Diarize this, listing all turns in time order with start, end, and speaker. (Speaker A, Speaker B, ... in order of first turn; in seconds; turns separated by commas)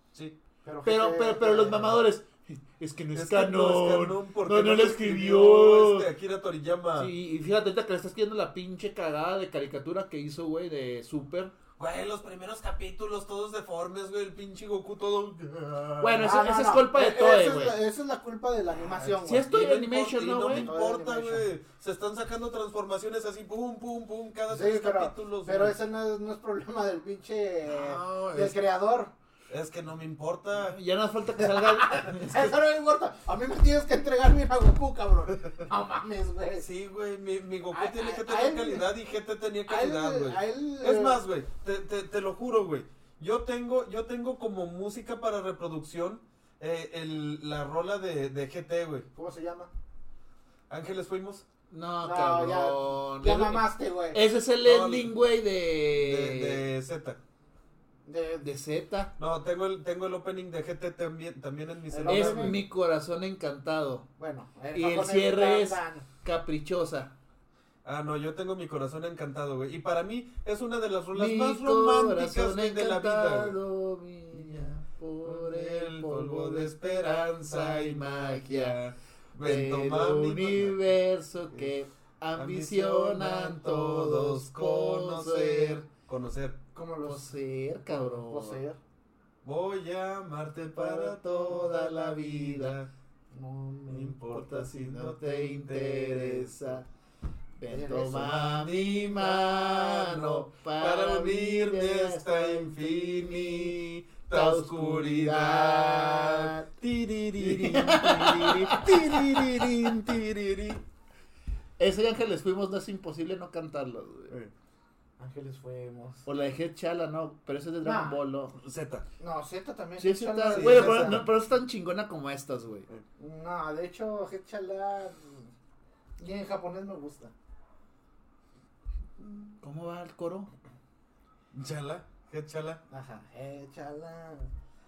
Speaker A: 0.6-2.0, Speaker B: 0.8-6.1, Speaker C: 3.1-7.1, Speaker B: 7.0-11.5, Speaker C: 11.8-16.2, Speaker B: 16.0-17.8, Speaker A: 16.2-19.5, Speaker B: 19.0-20.7, Speaker C: 19.4-25.8, Speaker A: 20.5-21.5, Speaker A: 24.5-29.1, Speaker C: 27.6-28.6, Speaker C: 29.5-30.8, Speaker B: 30.6-32.5, Speaker A: 31.4-36.7, Speaker C: 36.6-49.1, Speaker A: 37.7-38.9, Speaker A: 39.7-41.2, Speaker A: 49.1-49.7, Speaker C: 50.7-51.5, Speaker B: 51.7-56.7, Speaker A: 52.0-54.2, Speaker C: 54.6-55.1, Speaker C: 55.9-57.2, Speaker A: 58.1-58.5, Speaker B: 58.4-59.1, Speaker C: 59.2-62.6, Speaker A: 61.9-62.6, Speaker B: 62.1-64.1, Speaker A: 64.2-66.1, Speaker B: 64.7-67.2, Speaker C: 67.8-73.6, Speaker B: 71.1-78.8, Speaker C: 75.2-80.8, Speaker B: 79.4-85.8, Speaker C: 82.3-86.6, Speaker A: 86.7-87.4, Speaker B: 87.0-88.6, Speaker A: 87.9-88.8, Speaker C: 89.4-92.9, Speaker B: 90.7-92.8, Speaker A: 93.3-94.2, Speaker C: 93.9-96.8, Speaker B: 94.3-96.9, Speaker B: 97.6-106.7, Speaker A: 97.7-98.4, Speaker C: 98.2-110.8, Speaker B: 107.4-109.7, Speaker B: 111.8-114.3, Speaker A: 115.2-116.2, Speaker B: 116.2-118.6, Speaker A: 117.8-118.2, Speaker C: 118.6-119.1, Speaker A: 119.2-121.2, Speaker B: 120.0-122.9, Speaker C: 120.5-121.3, Speaker A: 123.2-125.5, Speaker A: 126.2-127.3, Speaker B: 129.6-130.5, Speaker C: 131.5-132.8, Speaker A: 132.9-134.5